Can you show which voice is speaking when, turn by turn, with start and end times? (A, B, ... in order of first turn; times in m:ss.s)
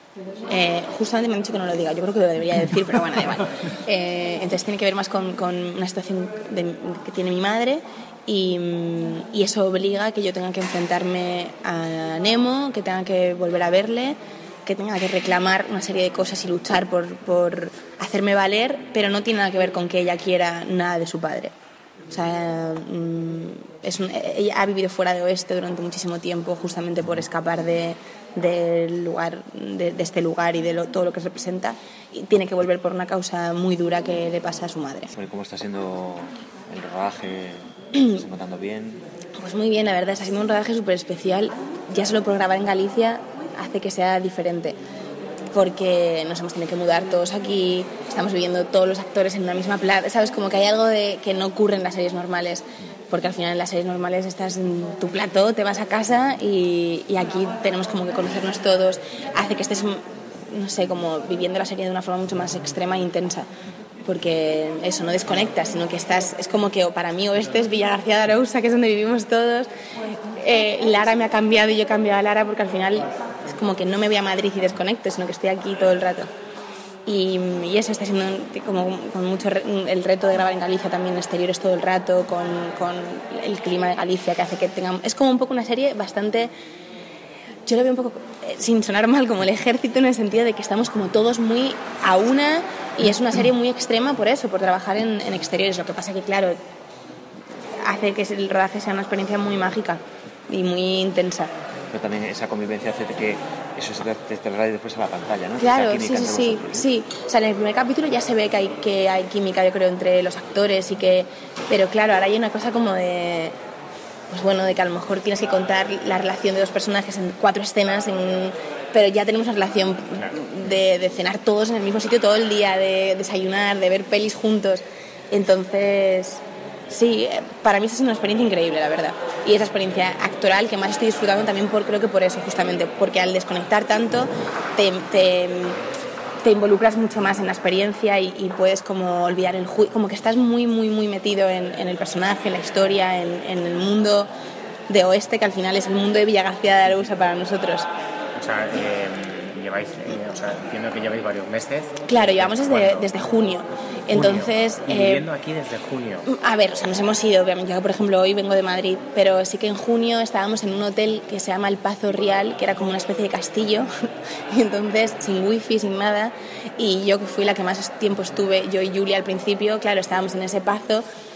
0:00.5-0:21.5 A
0:22.1-0:35.1 A
0:35.1-0:39.0 B
0:39.4-0:44.8 A
0:45.5-1:03.5 A
1:04.0-1:09.7 A
1:10.4-1:16.3 A
1:17.0-1:26.5 A
1:27.7-1:36.6 A
1:37.8-1:41.5 A
1:41.9-1:46.9 B
1:45.6-1:53.6 A
1:54.3-2:15.8 A
2:16.4-2:24.3 A
2:24.9-2:27.9 A
2:28.3-2:33.2 C
2:32.1-2:35.3 A
2:34.1-2:36.2 C
2:36.3-2:43.9 A
2:44.5-2:51.0 A